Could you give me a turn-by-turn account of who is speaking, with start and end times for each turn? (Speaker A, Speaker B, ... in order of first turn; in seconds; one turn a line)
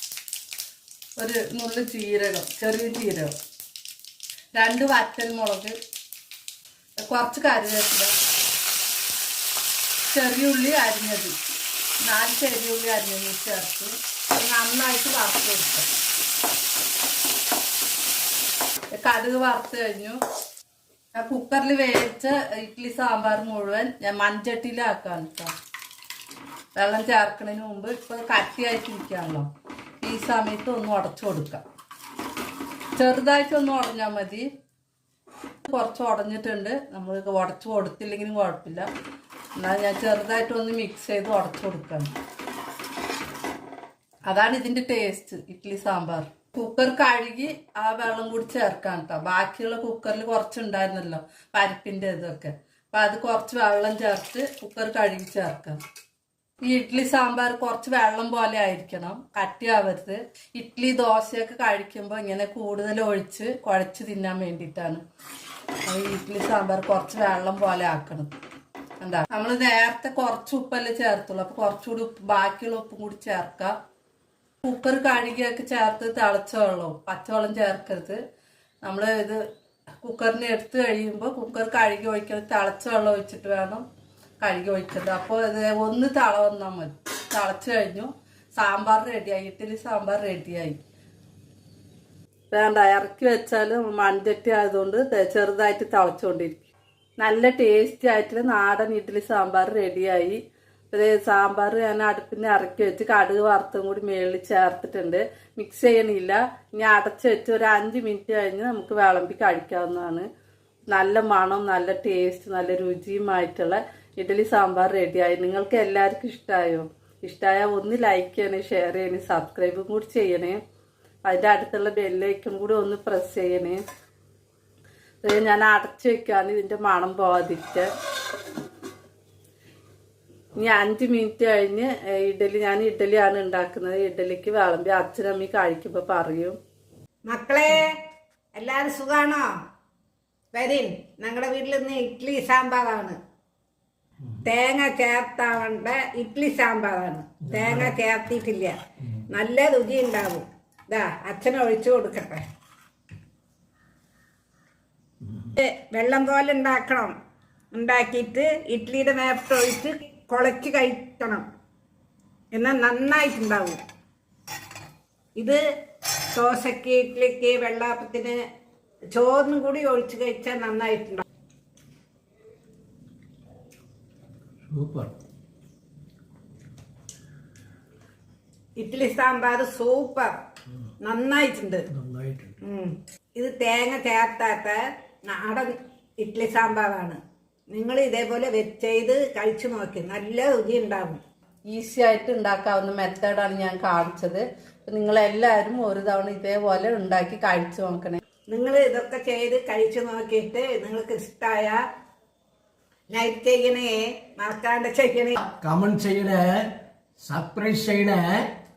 Speaker A: 1.2-3.3
Speaker A: 4.5-5.7
Speaker A: 7.1-8.1
Speaker A: 10.1-11.3
Speaker A: 12.0-15.9
Speaker A: 19.0-20.2
Speaker A: 21.1-25.5
Speaker A: 26.8-29.5
Speaker A: 30.0-31.6
Speaker A: 33.0-34.5
Speaker A: 35.6-38.9
Speaker A: 39.6-42.1
Speaker A: 44.3-55.8
Speaker A: 56.6-65.0
Speaker A: 65.8-68.3
Speaker A: 69.0-73.7
Speaker A: 74.6-78.2
Speaker A: 78.8-79.4
Speaker A: 80.0-83.8
Speaker A: 84.4-90.8
Speaker A: 92.5-100.4
Speaker A: 100.9-110.3
Speaker A: 110.9-120.6
Speaker A: 121.2-123.8
Speaker A: 125.2-127.9
Speaker A: 130.6-136.6
Speaker B: 137.3-138.0
Speaker B: 138.6-139.5
Speaker B: 140.5-143.2
Speaker B: 144.4-148.8
Speaker C: 147.6-147.8
Speaker B: 149.3-152.4
Speaker B: 155.6-157.1
Speaker B: 157.7-161.4
Speaker B: 162.5-163.8
Speaker B: 166.3-168.4
Speaker B: 169.1-171.2
Speaker C: 174.7-175.1
Speaker B: 178.8-180.3
Speaker B: 181.0-181.8
Speaker C: 181.9-182.5
Speaker B: 182.6-187.2
Speaker B: 187.7-191.2
Speaker A: 191.7-198.2
Speaker B: 198.5-201.8
Speaker B: 203.1-205.4
Speaker C: 205.4-208.5